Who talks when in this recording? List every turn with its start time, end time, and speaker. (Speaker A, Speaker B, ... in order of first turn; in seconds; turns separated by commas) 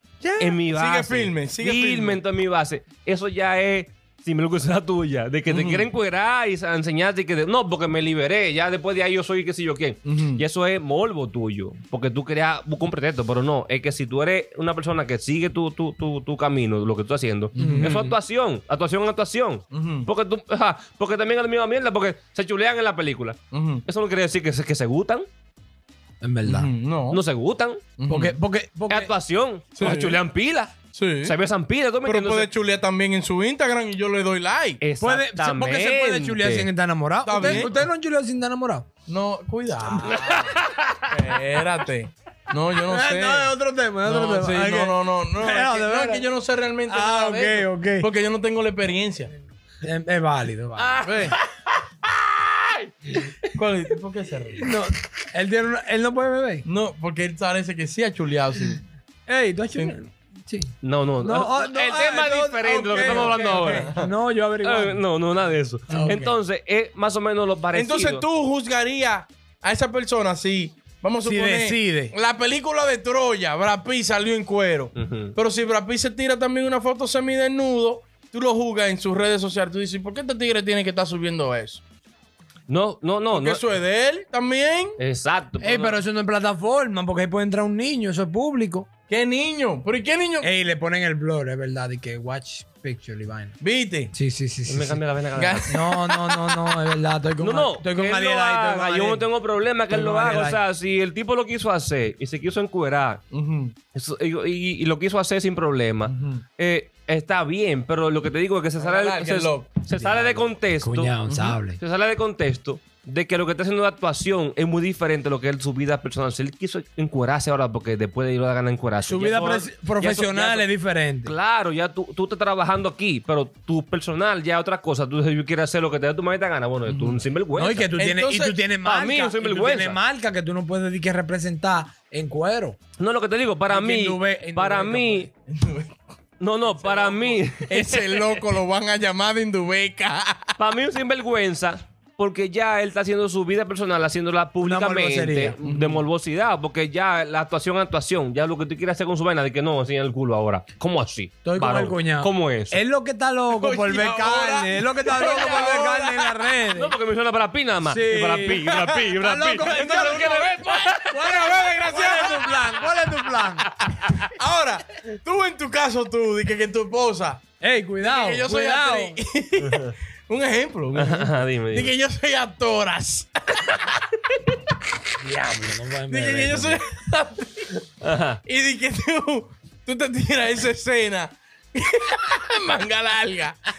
Speaker A: 0.2-2.2, Speaker B: 0.4-25.2, Speaker A: 5.5-5.9, Speaker A: 10.0-10.4, Speaker A: 17.5-18.0, Speaker C: 17.6-18.2, Speaker A: 19.7-20.1, Speaker A: 23.5-23.8, Speaker C: 26.2-26.7, Speaker A: 26.4-27.2, Speaker B: 27.1-27.8, Speaker A: 28.0-28.4, Speaker C: 28.1-29.1, Speaker B: 28.9-32.5, Speaker A: 29.8-30.2, Speaker A: 30.9-31.3, Speaker A: 32.0-34.8, Speaker B: 34.8-36.7, Speaker C: 35.0-38.9, Speaker A: 37.2-37.7, Speaker A: 39.1-40.4, Speaker C: 39.9-40.4, Speaker B: 40.0-41.1, Speaker A: 41.1-43.5, Speaker C: 42.8-46.3, Speaker A: 44.0-49.3, Speaker C: 46.9-48.1, Speaker C: 49.8-51.1, Speaker B: 50.8-51.4, Speaker A: 51.0-51.4, Speaker B: 52.4-53.1, Speaker A: 53.5-54.7, Speaker C: 54.6-56.6, Speaker A: 56.6-58.8, Speaker C: 59.3-65.0, Speaker B: 60.8-63.9, Speaker A: 62.7-64.1, Speaker B: 64.6-68.2, Speaker C: 65.9-66.4, Speaker A: 67.7-81.8, Speaker C: 71.2-72.1, Speaker B: 74.9-75.3, Speaker B: 82.7-83.6, Speaker A: 83.3-85.0, Speaker B: 85.0-86.0, Speaker C: 85.6-88.9, Speaker A: 89.1-90.5, Speaker C: 90.4-93.5, Speaker A: 93.6-94.1, Speaker C: 94.1-95.0, Speaker B: 94.7-95.7, Speaker A: 95.3-96.8, Speaker C: 95.7-99.3, Speaker B: 97.4-103.2, Speaker C: 99.9-100.6, Speaker A: 103.3-103.7, Speaker B: 103.9-120.7, Speaker A: 106.0-106.4, Speaker A: 108.8-110.5, Speaker C: 110.8-111.8, Speaker C: 119.0-121.3, Speaker B: 121.2-127.9, Speaker A: 126.8-127.2, Speaker C: 127.5-132.8, Speaker A: 128.0-128.6, Speaker B: 128.8-130.0, Speaker B: 133.0-135.3, Speaker C: 133.7-135.3, Speaker A: 135.5-135.9, Speaker B: 136.4-138.4, Speaker A: 136.8-140.5, Speaker B: 140.6-152.8, Speaker C: 144.6-145.6, Speaker A: 145.6-146.1, Speaker C: 151.4-156.9, Speaker A: 153.5-156.5, Speaker B: 156.7-161.1, Speaker C: 157.8-163.7, Speaker A: 159.6-162.8, Speaker A: 164.2-167.4, Speaker C: 167.6-169.2, Speaker A: 168.0-174.1, Speaker B: 170.9-171.9, Speaker C: 175.2-176.8, Speaker A: 176.1-177.8, Speaker B: 178.0-178.4, Speaker A: 178.4-183.6